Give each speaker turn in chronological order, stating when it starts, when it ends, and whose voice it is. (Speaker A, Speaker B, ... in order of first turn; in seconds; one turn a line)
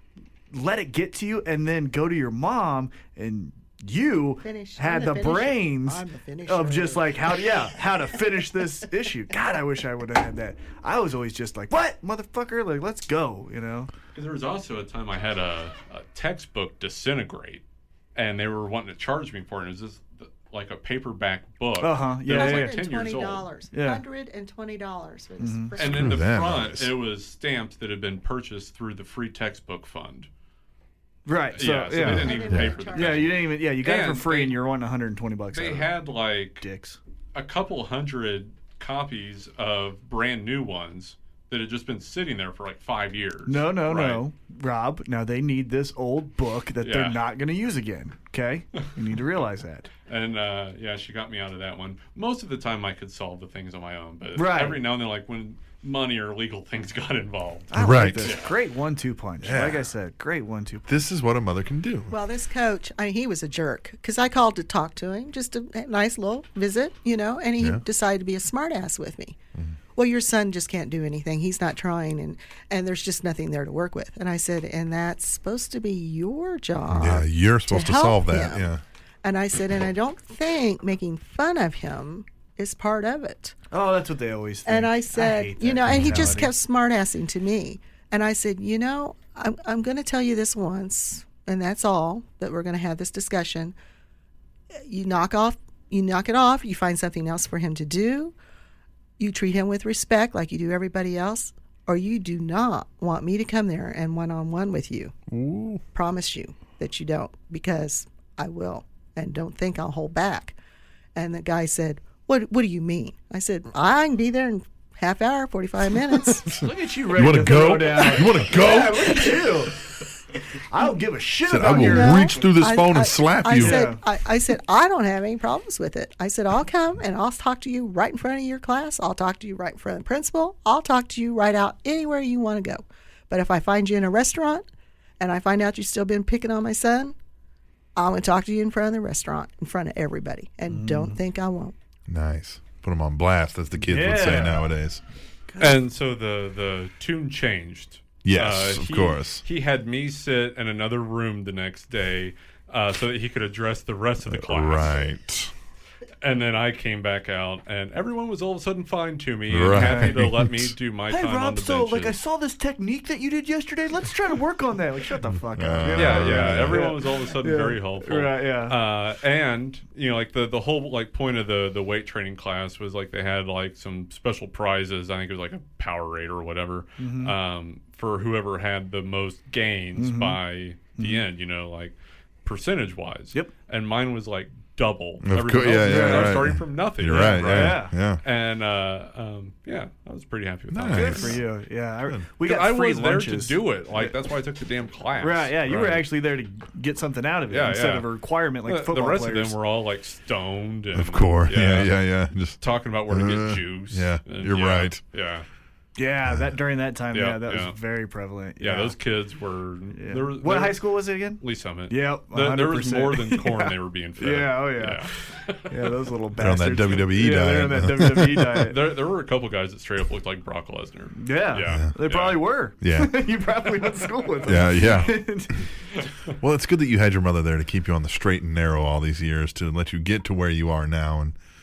Speaker A: 0.5-13.9
Speaker B: 4.4-7.2
Speaker C: 14.1-17.6
Speaker C: 18.1-23.5
Speaker A: 21.8-22.8
Speaker B: 22.3-26.2
Speaker A: 23.7-24.0
Speaker A: 25.4-25.8
Speaker C: 25.8-30.3
Speaker D: 25.8-26.9
Speaker A: 31.3-32.4
Speaker C: 31.6-34.6
Speaker B: 32.0-33.5
Speaker D: 32.0-32.8
Speaker A: 32.9-35.9
Speaker C: 35.5-36.6
Speaker A: 36.6-37.0
Speaker C: 37.3-44.2
Speaker A: 43.5-49.9
Speaker C: 46.8-47.2
Speaker C: 50.1-58.5
Speaker A: 54.4-54.8
Speaker A: 57.7-60.9
Speaker D: 57.7-58.3
Speaker D: 59.4-59.9
Speaker D: 60.9-62.1
Speaker B: 62.1-69.4
Speaker B: 70.0-78.7
Speaker D: 76.9-78.8
Speaker B: 79.2-83.6
Speaker A: 83.7-86.5
Speaker B: 84.7-93.8
Speaker D: 85.9-86.4
Speaker B: 94.8-98.3
Speaker B: 99.2-105.2
Speaker D: 105.3-105.8
Speaker B: 105.9-110.6
Speaker B: 111.2-116.5
Speaker D: 116.2-119.5
Speaker A: 116.5-119.8
Speaker A: 120.5-122.3
Speaker D: 121.5-123.9
Speaker B: 121.8-134.7
Speaker A: 123.6-124.0
Speaker B: 135.2-137.2
Speaker B: 138.0-141.8
Speaker A: 140.7-141.2
Speaker D: 142.1-145.0
Speaker A: 143.8-144.7
Speaker A: 145.5-145.8
Speaker C: 145.6-155.0
Speaker D: 148.2-149.4
Speaker D: 154.3-155.5
Speaker C: 156.2-162.2
Speaker D: 159.5-160.7
Speaker A: 159.7-160.2
Speaker A: 161.1-168.8
Speaker D: 165.5-166.9
Speaker C: 165.9-191.4
Speaker A: 177.0-177.3
Speaker A: 180.0-180.4
Speaker A: 181.0-181.2
Speaker D: 185.2-188.2
Speaker A: 185.8-186.4
Speaker A: 187.2-187.9
Speaker D: 190.7-191.4
Speaker A: 190.9-194.1
Speaker C: 192.4-196.1
Speaker A: 195.2-199.6
Speaker C: 197.5-198.1
Speaker C: 198.6-202.0
Speaker D: 200.9-205.0
Speaker C: 202.6-205.5
Speaker A: 206.0-208.9
Speaker C: 207.1-207.8
Speaker C: 208.6-210.8
Speaker A: 210.0-215.1
Speaker C: 211.4-215.9
Speaker A: 215.7-218.8
Speaker D: 216.4-218.7
Speaker C: 218.6-222.4
Speaker A: 221.2-225.7
Speaker D: 221.6-221.9
Speaker D: 222.8-223.2
Speaker D: 224.4-225.6
Speaker D: 226.4-231.3